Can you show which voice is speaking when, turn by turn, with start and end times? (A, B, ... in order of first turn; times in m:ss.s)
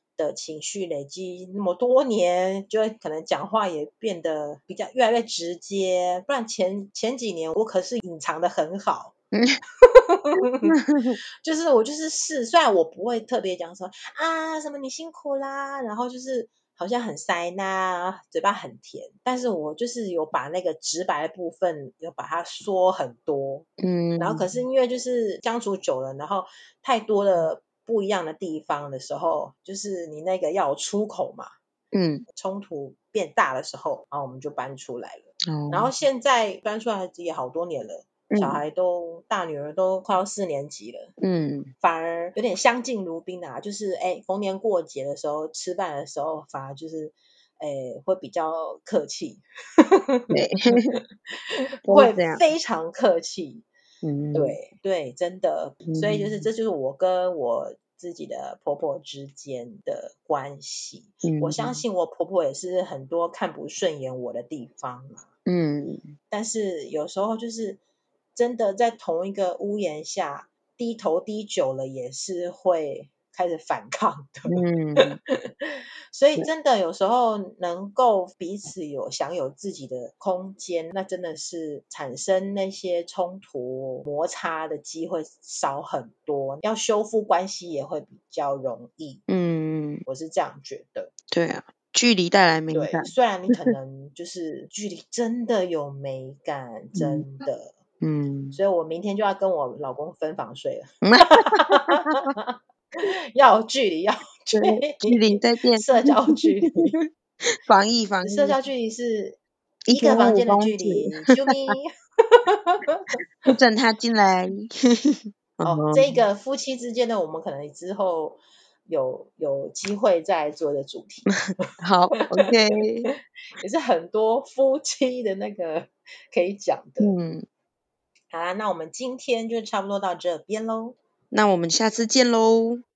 0:00.2-0:09.1 A
0:09.3-0:09.6 B
0:09.8-0:10.7 A
0:10.6-0:11.2 B
0:11.4-0:31.5 A
0:23.8-0:24.6 B
0:31.9-0:32.2 B
0:32.3-0:41.1 A
0:35.5-0:35.9 B
0:38.3-0:38.6 B
0:41.2-0:41.7 B
0:41.8-0:50.3 A
0:50.3-0:51.0 B
0:51.5-0:53.6 A
0:51.8-0:52.4 B
0:54.0-0:54.6 B
0:54.3-1:05.2 A
0:55.9-0:56.5 B
1:01.2-1:01.8 B
1:05.4-1:06.1 B
1:06.3-1:07.8 A
1:08.3-1:29.2 A
1:14.5-1:15.2 B
1:29.3-1:30.0 B
1:30.0-1:31.1 A
1:31.3-1:33.7 B
1:32.7-1:37.7 A
1:36.9-1:37.4 B
1:38.0-1:38.6 B
1:38.5-1:47.0 A
1:41.0-1:42.3 B
1:44.5-1:47.1 B
1:47.6-1:48.6 B
1:48.2-1:49.4 A
1:49.9-1:51.5 B
1:49.9-1:53.5 A
1:53.4-1:56.2 B
1:55.6-2:01.3 A
2:01.8-2:03.1 B
2:02.2-2:02.5 A
2:03.6-2:07.1 A
2:07.0-2:07.4 B
2:08.3-2:11.0 A
2:11.3-2:12.8 B